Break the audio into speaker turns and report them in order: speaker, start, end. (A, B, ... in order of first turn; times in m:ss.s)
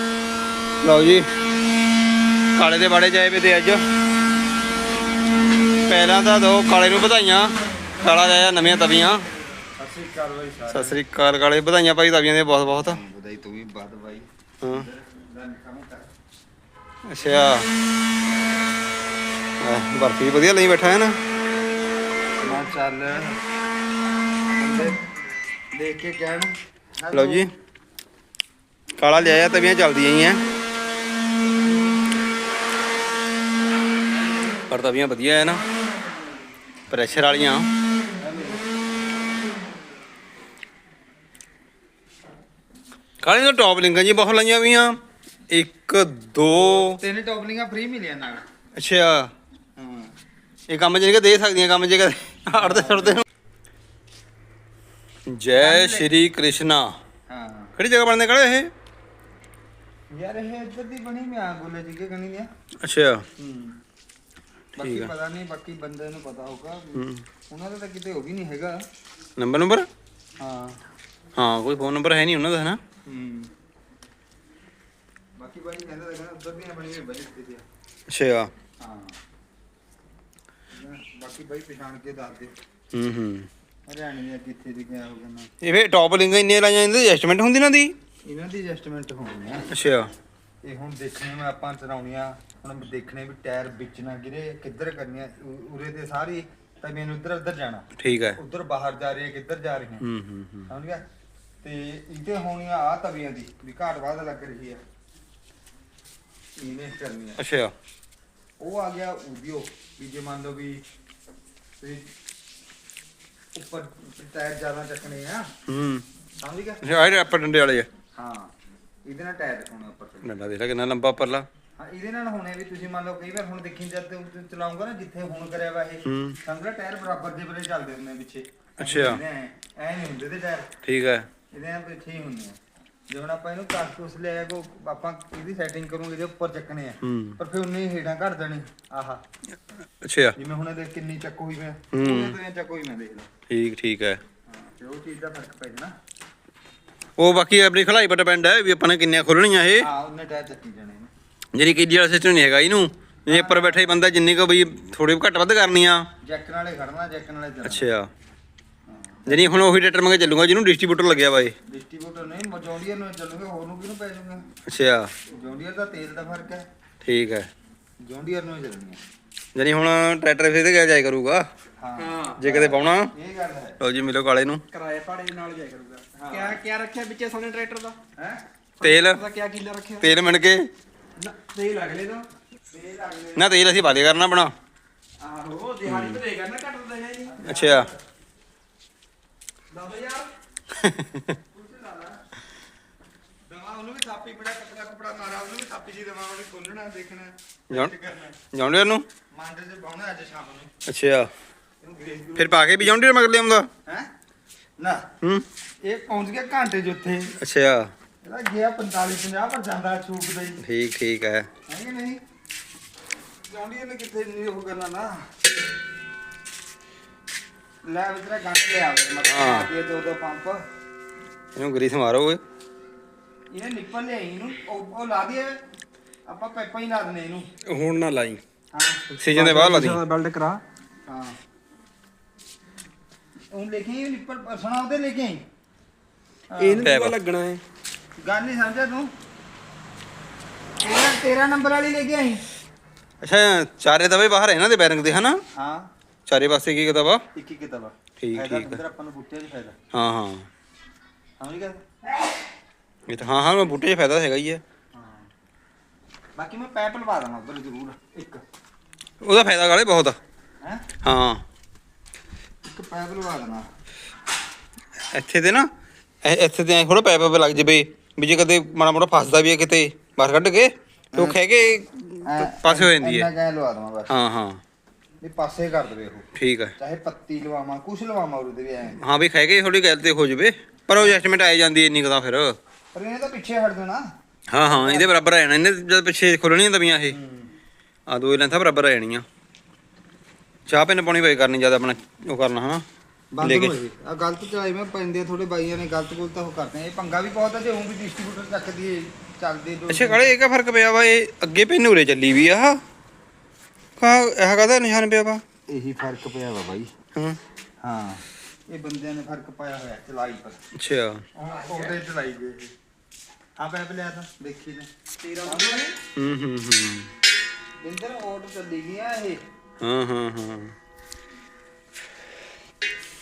0:00.8-0:01.3 A
0:02.6-0:03.8 A
0:05.8-0:09.2 A
0:09.8-0:11.0 B
0:10.7-0:13.0 A
0:12.6-0:16.1 B
0:17.1-0:17.7 A
0:19.6-0:21.2 A
0:22.4-0:23.4 B
0:24.5-0:25.0 B
0:25.7-0:27.4 B
0:27.1-0:27.5 A
0:29.0-0:30.4 A
0:34.7-0:35.6 A
0:36.9-0:37.7 A
0:38.2-0:38.6 B
0:43.2-0:45.0 A
0:45.5-0:47.0 A
0:46.7-0:48.4 B
0:48.8-0:49.3 A
0:49.8-0:50.1 B
0:50.7-0:53.2 A
0:52.5-0:53.2 B
0:55.3-0:57.0 A
0:55.6-0:56.1 B
0:57.3-0:57.7 B
0:57.8-0:58.7 A
1:00.1-1:02.5 B
1:02.8-1:03.2 A
1:03.4-1:03.8 B
1:04.8-1:08.8 B
1:04.8-1:05.1 A
1:07.0-1:07.2 A
1:09.4-1:09.9 A
1:10.4-1:10.8 B
1:11.4-1:12.8 A
1:13.1-1:13.5 B
1:15.4-1:17.6 B
1:18.1-1:18.5 A
1:18.8-1:19.2 B
1:20.7-1:22.5 B
1:22.9-1:23.5 A
1:23.9-1:25.5 B
1:25.6-1:27.9 A
1:28.2-1:29.7 B
1:29.7-1:30.1 A
1:30.6-1:40.1 B
1:38.0-1:38.4 A
1:40.0-1:40.7 A
1:40.7-1:41.0 B
1:41.6-1:44.8 B
1:46.6-1:47.4 B
1:47.4-1:47.7 A
1:48.6-1:50.8 B
1:51.8-1:52.1 B
1:53.6-1:55.5 B
1:55.7-1:56.0 A
1:56.4-1:56.8 B
1:56.8-1:57.9 A
1:58.2-1:58.5 B
1:59.0-2:00.3 B
2:00.2-2:01.5 A
2:01.8-2:10.7 B
2:06.0-2:06.4 A
2:08.8-2:09.2 A
2:10.8-2:11.3 A
2:11.5-2:12.6 B
2:13.1-2:19.2 B
2:17.0-2:17.4 A
2:20.0-2:20.4 A
2:20.4-2:23.3 B
2:21.9-2:22.4 A
2:23.5-2:24.2 A
2:24.5-2:25.9 B
2:27.2-2:29.9 A
2:29.8-2:31.1 B
2:31.5-2:36.1 A
2:33.3-2:34.0 B
2:36.2-2:37.9 B
2:37.6-2:38.1 A
2:38.9-2:39.6 B
2:39.3-2:41.6 A
2:41.7-2:44.4 B
2:44.7-2:45.1 A
2:45.3-2:46.6 B
2:47.0-2:47.5 A
2:48.0-2:49.0 B
2:49.6-2:51.5 A
2:51.8-2:53.8 B
2:52.0-2:52.4 C
2:52.4-2:53.1 A
2:53.8-2:54.6 A
2:54.7-2:58.0 C
2:56.2-2:56.6 B
2:58.8-3:00.1 C
2:58.8-2:59.2 A
3:00.0-3:00.7 A
3:01.2-3:02.3 C
3:02.7-3:03.6 B
3:03.4-3:04.5 A
3:05.2-3:07.5 C
3:05.9-3:06.2 A
3:07.3-3:08.0 B
3:07.4-3:07.9 A
3:09.7-3:10.3 C
3:10.8-3:11.3 A
3:11.4-3:12.2 B
3:13.5-3:18.4 B
3:18.5-3:19.1 A
3:19.3-3:20.7 B
3:20.9-3:21.3 A
3:21.8-3:22.8 B
3:22.4-3:23.7 A
3:24.8-3:25.0 B
3:25.8-3:27.3 B
3:27.4-3:27.9 A
3:28.2-3:30.6 B
3:30.6-3:31.5 A
3:31.7-3:32.2 B
3:33.5-3:35.2 B
3:37.8-3:40.6 B
3:39.2-3:39.7 A
3:41.6-3:42.4 A
3:43.5-3:45.6 B
3:46.3-3:47.5 B
3:47.6-3:48.4 C
3:48.7-3:49.0 B
3:49.2-3:50.0 A
3:49.2-3:50.6 C
3:51.1-3:51.4 B
3:53.5-3:55.4 B
3:56.5-3:56.9 B
3:56.6-3:57.6 C
3:56.8-3:57.2 A
3:58.2-3:59.1 B
4:00.8-4:02.4 B
4:03.2-4:05.4 A
4:05.5-4:05.9 B
4:06.3-4:07.2 A
4:07.4-4:09.8 B
4:08.2-4:08.8 A
4:09.9-4:10.5 A
4:11.4-4:11.8 B
4:13.1-4:14.6 A
4:14.9-4:15.3 B
4:16.4-4:18.4 B
4:19.2-4:20.2 A
4:21.0-4:21.4 A
4:22.6-4:23.7 B
4:25.1-4:25.7 A
4:26.2-4:33.3 A
4:31.1-4:31.4 B
4:32.3-4:34.1 B
4:34.1-4:34.6 A
4:35.2-4:39.0 B
4:36.4-4:36.7 A
4:39.0-4:42.6 A
4:42.9-4:44.0 B
4:44.5-4:47.2 A
4:44.6-4:45.1 B
4:47.1-4:47.5 B
4:48.1-4:49.3 A
4:50.7-4:52.8 A
4:53.3-5:00.3 B
4:53.4-4:53.7 A
4:59.9-5:02.8 A
5:04.0-5:05.4 A
5:05.7-5:06.9 B
5:07.1-5:07.4 A
5:07.8-5:10.6 B
5:10.8-5:11.2 A
5:11.4-5:12.7 B
5:11.4-5:12.0 C
5:13.6-5:14.9 B
5:15.2-5:16.0 C
5:15.4-5:15.9 B
5:16.2-5:17.1 A
5:17.8-5:19.4 B
5:19.8-5:20.7 A